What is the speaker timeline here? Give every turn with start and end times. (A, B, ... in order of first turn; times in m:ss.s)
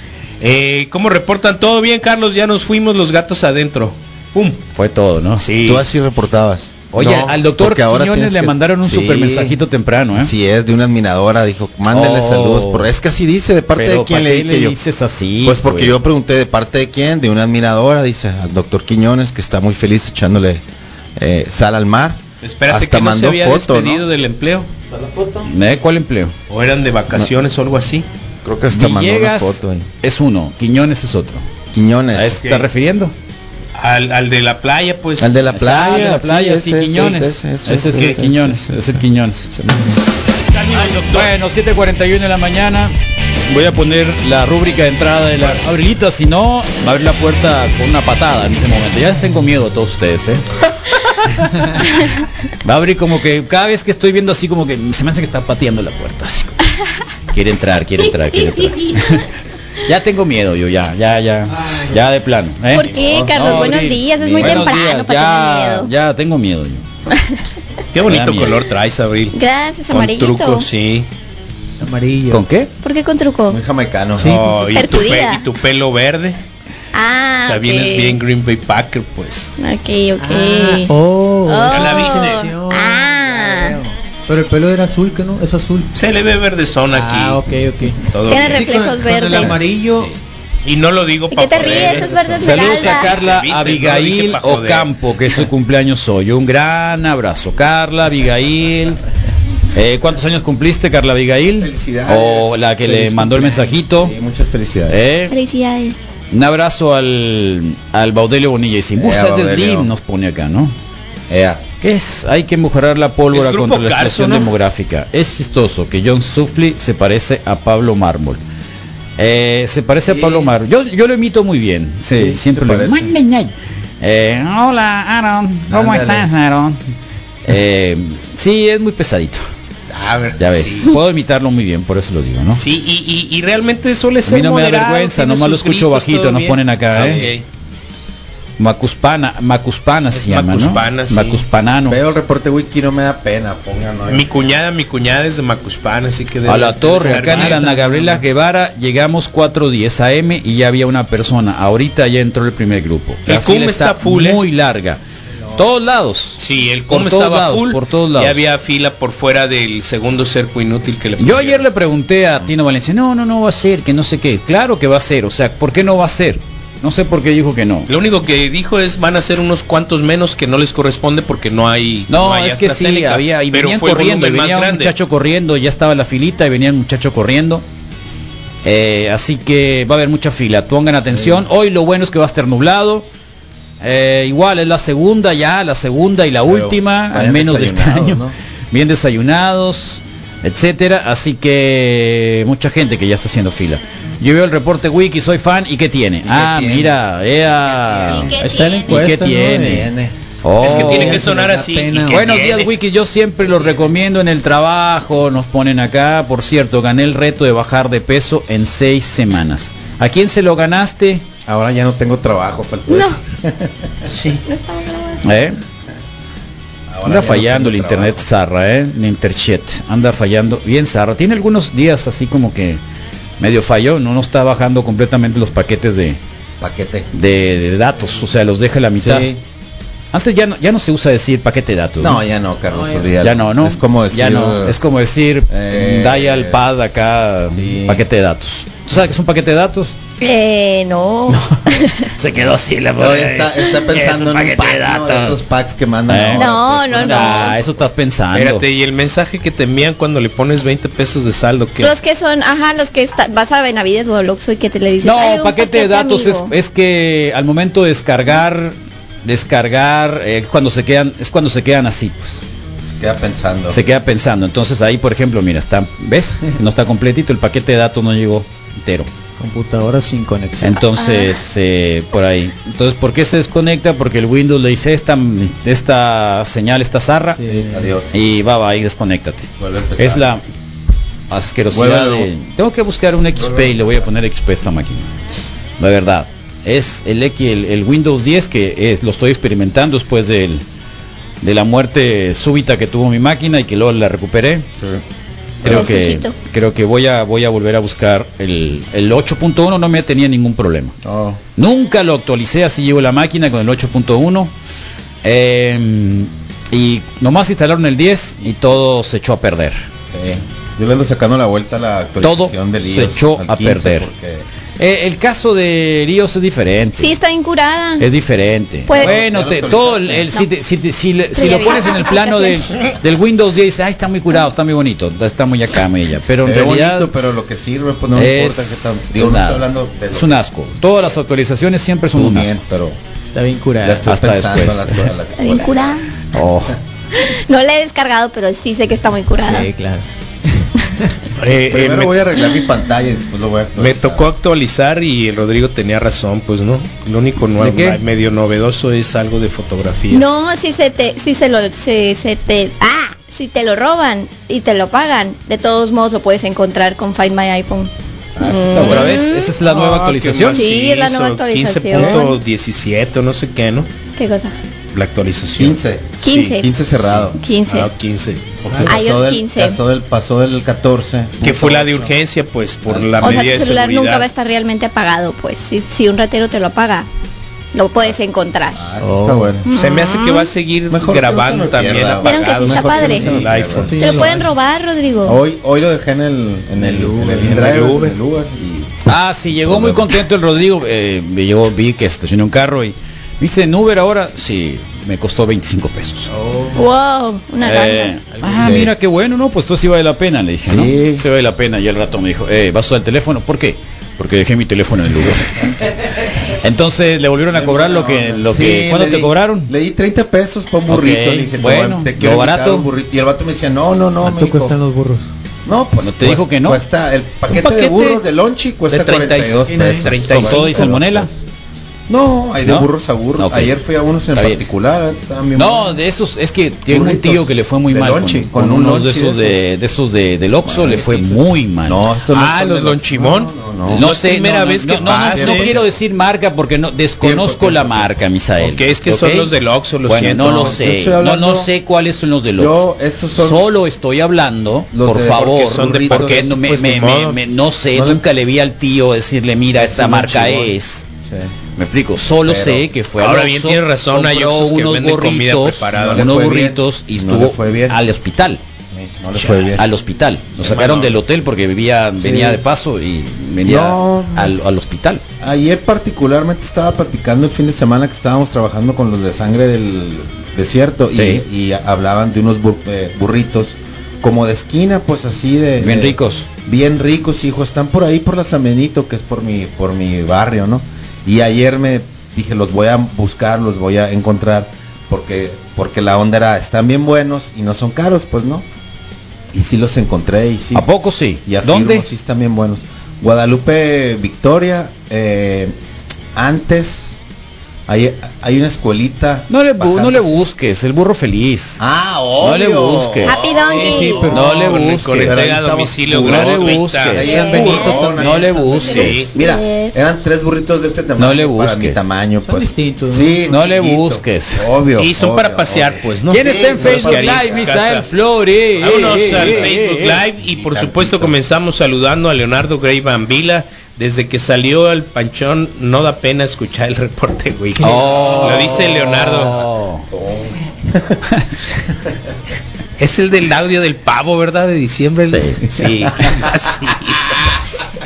0:00.4-0:04.6 A
0:04.7-0:05.5 B
0:05.4-0:05.8 A
0:05.6-0:09.6 C
0:06.9-0:10.3 B
0:10.2-0:14.8 C
0:11.9-0:12.9 B
0:13.8-0:15.9 B
0:15.4-0:20.6 C
0:21.2-0:24.0 C
0:22.4-0:24.7 A
0:25.0-0:25.4 C
0:25.4-0:26.3 B
0:26.5-0:28.0 A
0:28.4-0:29.9 C
0:28.7-0:31.4 B
0:31.7-0:32.4 C
0:32.1-0:33.1 B
0:32.4-0:32.7 A
0:33.8-0:35.3 A
0:35.2-0:40.0 C
0:35.5-0:39.5 B
0:40.5-0:41.3 A
0:41.0-0:42.9 B
0:43.5-0:50.4 B
0:51.2-0:52.0 B
0:52.6-0:56.6 B
0:57.3-0:59.2 B
0:58.1-0:59.2 D
0:59.9-1:06.8 B
1:01.5-1:02.2 C
1:02.7-1:05.9 D
1:02.7-1:04.8 C
1:07.9-1:09.4 A
1:08.0-1:08.7 B
1:09.3-1:10.7 D
1:09.9-1:11.1 A
1:11.8-1:12.4 E
1:12.3-1:12.7 B
1:12.8-1:13.6 D
1:13.5-1:14.4 C
1:14.2-1:14.7 E
1:14.2-1:16.4 A
1:14.7-1:15.6 D
1:16.9-1:18.2 D
1:17.4-1:19.5 A
1:19.6-1:20.9 D
1:20.2-1:25.9 E
1:21.4-1:23.8 D
1:21.7-1:22.5 A
1:25.9-1:28.8 A
1:26.9-1:30.1 E
1:28.3-1:29.6 D
1:29.9-1:35.4 A
1:31.3-1:33.3 D
1:32.4-1:39.0 B
1:39.7-1:44.1 B
1:41.6-1:45.0 C
1:44.9-1:45.3 B
1:45.3-1:45.9 D
1:46.3-1:50.7 B
1:49.0-1:49.9 C
1:51.3-1:51.6 C
1:51.8-1:58.4 B
1:53.3-1:54.6 A
1:59.2-2:06.8 B
2:00.0-2:00.5 C
2:02.1-2:03.2 C
2:05.7-2:06.3 C
2:07.4-2:09.4 B
2:09.9-2:10.6 C
2:10.4-2:12.6 B
2:10.5-2:10.9 A
2:12.5-2:17.4 A
2:14.2-2:17.2 B
2:16.9-2:17.3 C
2:18.6-2:22.0 B
2:20.1-2:21.4 A
2:21.8-2:24.3 C
2:24.1-2:27.6 A
2:26.4-2:35.0 B
2:27.0-2:28.2 E
2:33.3-2:34.4 A
2:35.6-2:36.4 B
2:36.4-2:41.6 A
2:36.9-2:38.4 B
2:41.2-2:47.9 B
2:47.9-2:54.9 A
2:52.1-2:57.6 B
2:58.6-3:03.0 B
3:01.1-3:01.4 C
3:03.8-3:19.9 B
3:06.5-3:08.3 C
3:16.2-3:17.0 C
3:17.7-3:19.2 D
3:17.8-3:18.4 C
3:18.4-3:19.9 E
3:19.4-3:20.1 C
3:20.4-3:21.3 B
3:20.6-3:22.7 A
3:20.6-3:22.3 E
3:22.1-3:31.2 B
3:31.4-3:34.1 C
3:32.9-3:33.2 D
3:34.1-3:34.4 E
3:34.4-3:35.2 D
3:35.2-3:35.6 B
3:36.9-3:38.3 C
3:37.0-3:42.8 B
3:43.4-3:46.2 B
3:46.6-3:47.1 C
3:47.1-3:49.3 B
3:49.0-3:49.4 C
3:50.1-3:52.2 B
3:52.0-3:54.8 C
3:52.7-3:53.1 E
3:53.2-4:00.0 B
3:55.5-3:56.6 C
3:57.5-3:58.0 C
4:00.2-4:02.1 D
4:01.3-4:01.6 B
4:02.2-4:05.4 B
4:03.0-4:07.8 C
4:06.1-4:08.6 B
4:06.4-4:07.6 D
4:08.3-4:11.9 A
4:11.8-4:16.5 D
4:15.0-4:18.7 B
4:19.2-4:22.4 B
4:22.9-4:23.8 C
4:23.7-4:29.1 B
4:29.4-4:30.8 E
4:30.6-4:37.5 B
4:30.9-4:31.4 D
4:37.4-4:37.9 E
4:37.7-4:38.3 C
4:38.1-4:40.4 B
4:39.6-4:40.3 C
4:41.3-4:45.1 B
4:41.7-4:42.3 C
4:43.4-4:44.1 C
4:45.8-4:50.6 B
4:51.4-4:54.6 B
4:55.6-4:55.9 C
4:55.6-5:00.9 B
4:55.6-4:56.4 D
5:01.0-5:01.4 C
5:01.6-5:04.5 B
5:05.2-5:09.9 B
5:10.1-5:14.4 C
5:12.2-5:14.1 B
5:14.8-5:17.1 B
5:17.0-5:18.1 D
5:18.0-5:27.1 B
5:18.9-5:19.2 D
5:18.9-5:20.3 C
5:21.3-5:22.6 D
5:26.4-5:30.4 C
5:28.1-5:32.6 B
5:32.1-5:33.0 C
5:33.2-5:34.0 E
5:33.8-5:36.0 C
5:34.0-5:35.1 B
5:35.4-5:36.0 D
5:36.3-5:36.8 B
5:37.1-5:39.6 D
5:39.4-5:40.7 E
5:41.4-5:42.2 A
5:41.7-5:44.3 C
5:43.8-5:50.3 A
5:47.6-5:48.0 B
5:50.1-5:59.6 D
5:58.4-5:59.3 C
5:58.8-6:00.6 B
5:59.6-6:03.9 A
6:00.5-6:02.4 D
6:01.9-6:02.2 B
6:04.2-6:04.6 D
6:04.9-6:06.4 A
6:05.6-6:07.4 C
6:06.2-6:06.7 D
6:07.0-6:08.7 A
6:07.4-6:07.9 D
6:08.6-6:12.1 C
6:08.6-6:09.0 E
6:08.9-6:09.8 D
6:11.4-6:14.2 A
6:12.9-6:13.7 C
6:13.2-6:17.1 D
6:17.7-6:18.8 D
6:18.7-6:19.6 C
6:19.0-6:19.6 E
6:19.6-6:20.5 D
6:19.7-6:24.3 A
6:20.9-6:24.5 C
6:22.2-6:23.3 D
6:23.2-6:24.5 E
6:24.0-6:25.4 D
6:25.2-6:30.2 C
6:26.8-6:28.0 E
6:27.4-6:28.1 A
6:29.1-6:36.3 B
6:36.3-6:36.8 E
6:36.8-6:38.2 D
6:37.6-6:45.7 B
6:38.3-6:38.8 E
6:38.5-6:38.9 C
6:40.6-6:41.2 C
6:46.5-6:49.7 B
6:47.5-6:54.7 C
6:50.9-6:52.9 B
6:54.2-6:55.3 E
6:55.6-7:01.4 C
6:56.0-6:56.8 B
6:57.5-6:58.2 A
6:58.9-7:00.9 A
6:59.6-7:00.1 E
7:00.3-7:01.3 B
7:02.1-7:06.0 C
7:03.4-7:03.7 B
7:04.3-7:04.6 B
7:05.6-7:12.0 B
7:06.9-7:09.6 C
7:10.6-7:14.1 C
7:12.3-7:15.7 A
7:13.9-7:19.5 B
7:14.9-7:15.9 C
7:17.2-7:18.1 C
7:18.6-7:20.8 A
7:20.1-7:22.8 B
7:20.2-7:21.7 C
7:22.6-7:23.6 C
7:23.4-7:31.0 B
7:24.9-7:26.5 C
7:25.4-7:27.4 A
7:27.9-7:28.2 C
7:29.7-7:31.5 C
7:31.8-7:38.6 B
7:32.4-7:32.9 C
7:33.2-7:36.3 A
7:35.9-7:38.0 C
7:38.9-7:39.9 C
7:39.4-7:39.7 A
7:39.7-7:45.2 B
7:40.6-7:41.2 A
7:42.2-7:42.6 C
7:43.6-7:44.6 C
7:45.4-8:08.6 C
7:51.2-7:51.4 B
7:55.8-7:56.5 B
8:09.5-8:10.9 C
8:10.7-8:12.0 B
8:11.4-8:15.7 C
8:16.3-8:17.2 C
8:17.9-8:20.4 C
8:19.5-8:21.8 B
8:21.8-8:38.2 C
8:22.4-8:23.4 B
8:23.2-8:24.3 D
8:23.7-8:24.7 E
8:24.3-8:29.3 B
8:24.4-8:27.3 A
8:27.2-8:28.2 D
8:27.8-8:28.6 E
8:28.8-8:30.0 D
8:28.9-8:29.3 A
8:31.2-8:32.0 B
8:32.4-8:33.4 E
8:33.5-8:34.6 B
8:35.0-8:38.0 A
8:36.3-8:40.2 B
8:38.8-8:49.6 A
8:38.8-8:41.4 C
8:47.8-8:48.9 C
8:47.8-8:50.0 B
8:47.8-8:48.4 E
8:50.1-8:51.2 C
8:53.0-8:57.6 A
8:55.3-8:55.6 B
8:55.6-8:56.4 C